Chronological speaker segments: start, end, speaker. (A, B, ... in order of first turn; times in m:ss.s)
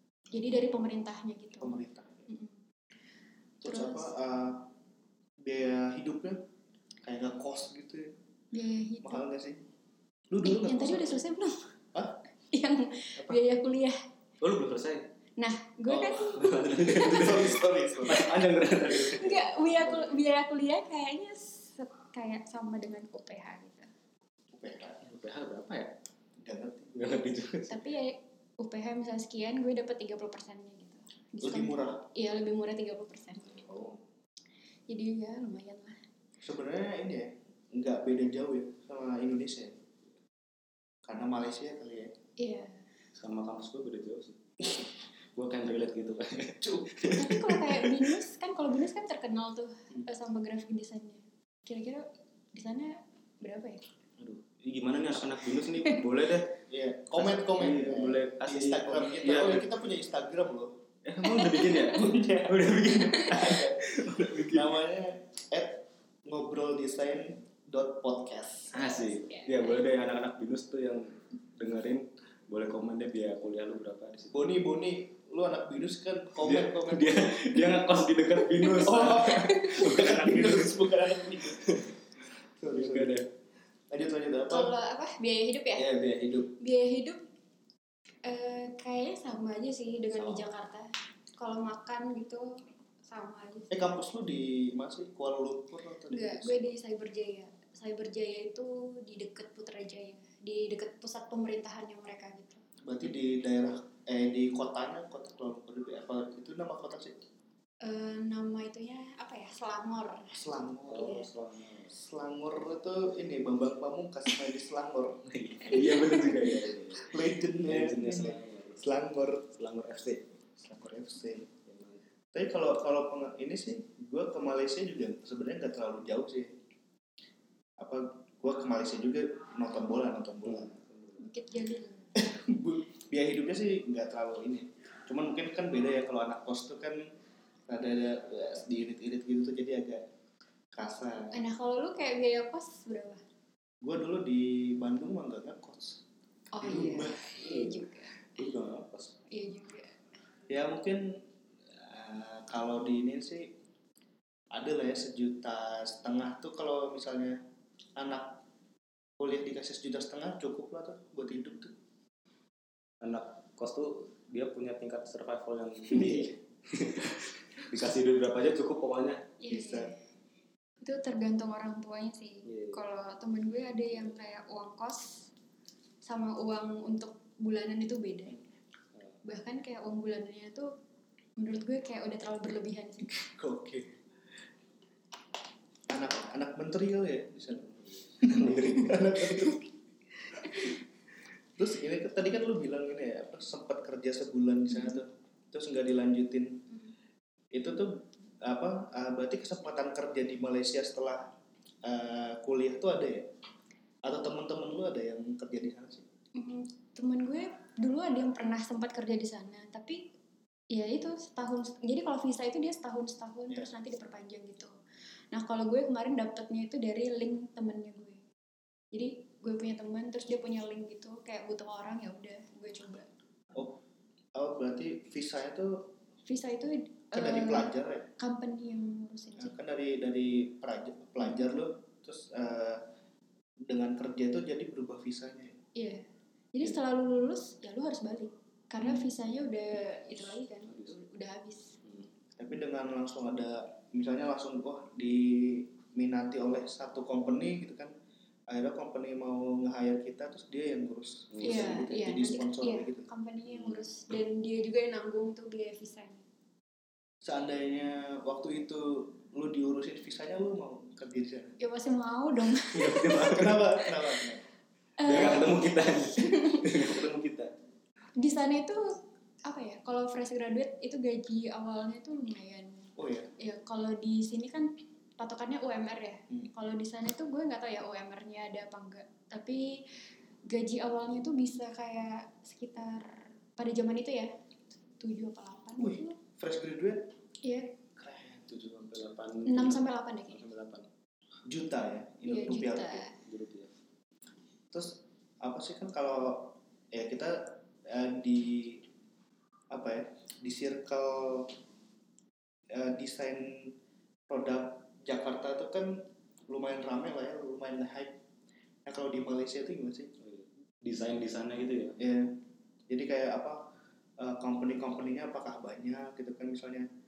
0:00.3-0:02.6 A
0:00.4-0:00.8 B
0:01.6-0:02.3 B
0:03.6-0:04.7 B
0:03.6-0:04.1 A
0:05.4-0:06.4 B
0:07.0-0:08.2 B
0:08.5-0:09.2 A
0:09.0-0:09.6 B
0:10.3-0:11.2 B
0:10.4-0:11.7 A
0:11.9-0:12.2 B
0:12.5-0:14.0 A
0:14.4-0:15.0 C
0:15.4-0:17.4 A
0:15.9-0:16.3 B
0:16.0-0:20.2 C
0:16.8-0:18.3 B
0:19.2-0:23.9 A
0:24.5-0:25.0 B
0:25.0-0:26.0 C
0:26.4-0:27.2 B
0:27.0-0:27.8 C
0:27.7-0:33.7 A
0:31.4-0:32.0 B
0:33.6-0:34.0 B
0:34.9-0:36.0 A
0:36.4-0:39.8 B
0:41.0-0:42.2 B
0:42.4-0:42.8 A
0:43.2-0:44.4 C
0:45.4-0:47.9 C
0:46.6-0:47.1 B
0:47.1-0:53.8 A
0:54.2-0:56.6 C
0:55.7-0:56.0 A
0:56.7-1:00.8 B
0:57.1-0:59.7 C
1:01.0-1:04.7 C
1:01.3-1:08.8 B
1:08.7-1:14.4 C
1:08.8-1:09.8 A
1:14.3-1:17.6 B
1:16.4-1:22.0 C
1:18.6-1:19.7 A
1:18.8-1:21.8 B
1:22.6-1:23.2 B
1:22.7-1:23.3 C
1:23.9-1:24.7 B
1:24.5-1:25.9 A
1:25.8-1:26.5 C
1:26.6-1:27.2 A
1:28.2-1:33.8 A
1:30.1-1:30.4 B
1:33.7-1:36.6 B
1:36.1-1:42.6 A
1:42.8-1:47.2 B
1:47.8-1:50.4 A
1:50.3-1:51.3 B
1:50.9-1:51.9 C
1:51.0-1:51.3 A
1:51.9-1:56.0 B
1:55.3-1:58.9 C
1:55.9-1:56.5 A
1:57.0-1:59.5 B
1:59.5-2:00.3 C
2:00.6-2:01.5 B
2:01.6-2:02.0 C
2:02.3-2:06.5 B
2:07.8-2:10.7 B
2:10.4-2:11.2 C
2:11.2-2:12.1 A
2:12.2-2:17.1 B
2:17.7-2:20.0 B
2:20.7-2:21.4 B
2:21.3-2:23.2 A
2:23.8-2:26.0 B
2:26.5-2:28.3 A
2:26.6-2:27.2 B
2:26.6-2:29.2 C
2:29.3-2:30.0 A
2:30.5-2:33.5 B
2:34.5-2:37.4 B
2:38.0-2:38.4 B
2:39.2-2:41.8 B
2:43.0-2:49.4 C
2:49.4-2:49.9 A
2:49.5-2:49.9 B
2:50.8-2:55.3 A
2:52.4-2:52.8 C
2:56.0-2:58.4 A
2:59.2-3:00.7 A
3:01.4-3:03.2 A
3:03.1-3:03.9 B
3:05.9-3:09.6 B
3:07.6-3:09.6 C
3:11.6-3:16.7 B
3:17.5-3:21.3 B
3:21.8-3:23.3 B
3:24.0-3:26.1 B
3:26.4-3:30.1 A
3:30.7-3:34.7 A
3:35.3-3:38.2 A
3:38.9-3:43.1 A
3:43.5-3:43.8 B
3:44.4-3:45.9 B
3:46.2-3:49.6 A
3:47.1-3:48.1 B
3:49.4-3:52.9 B
3:53.7-3:55.6 B
3:55.8-4:01.8 A
4:00.7-4:00.9 C
4:02.4-4:07.9 B
4:08.5-4:13.1 B
4:11.3-4:11.8 C
4:11.4-4:16.2 A
4:17.2-4:21.6 B
4:21.6-4:23.5 A
4:22.6-4:23.7 C
4:23.2-4:24.4 B
4:25.0-4:26.9 A
4:25.0-4:27.5 C
4:28.2-4:39.9 A
4:33.0-4:33.3 B
4:40.5-4:44.3 A
4:45.0-4:46.2 A
4:45.8-4:47.1 B
4:47.4-4:47.8 A
4:48.0-4:48.5 B
4:48.5-4:50.9 C
4:49.5-4:50.5 A
4:51.5-4:53.1 B
4:52.2-4:53.2 A
4:53.2-4:53.7 C
4:54.7-4:58.9 B
4:59.7-5:01.5 B
5:02.7-5:03.8 B
5:04.3-5:08.2 B
5:08.9-5:10.1 B
5:10.2-5:12.0 C
5:12.0-5:13.7 B
5:14.2-5:16.9 B